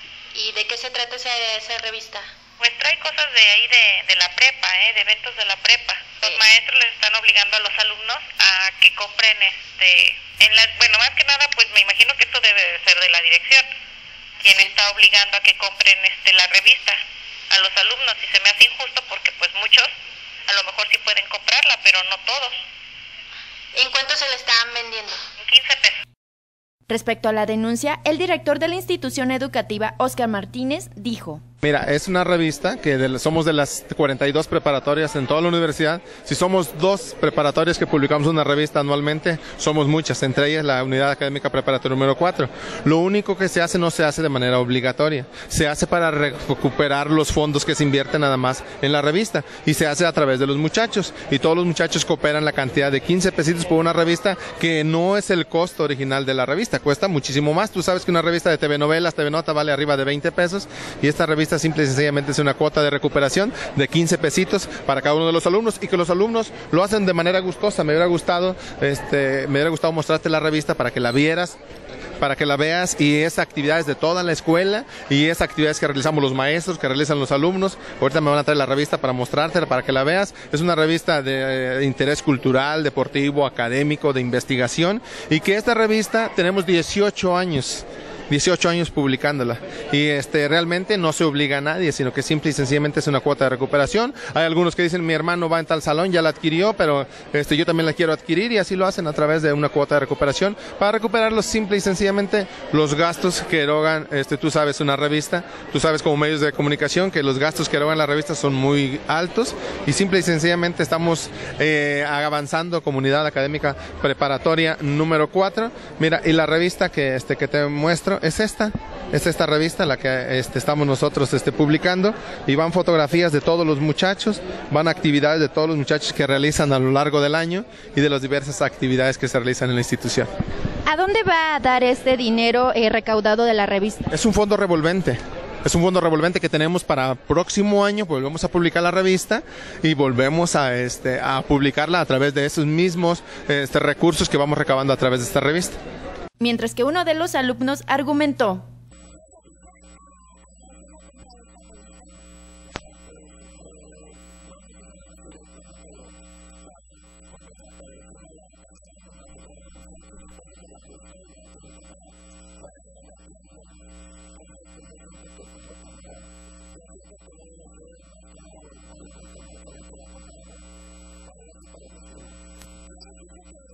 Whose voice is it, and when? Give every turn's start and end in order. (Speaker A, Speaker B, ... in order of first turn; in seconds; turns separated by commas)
Speaker A: 0.3-2.3, Speaker B: 2.6-13.7, Speaker B: 14.4-17.0, Speaker B: 17.5-19.9, Speaker B: 20.5-22.6, Speaker A: 23.7-25.2, Speaker B: 25.4-25.9, Speaker C: 26.9-31.4, Speaker D: 31.6-71.6, Speaker D: 72.2-130.3, Speaker C: 130.8-134.0, Speaker D: 134.1-145.8, Speaker C: 146.4-148.7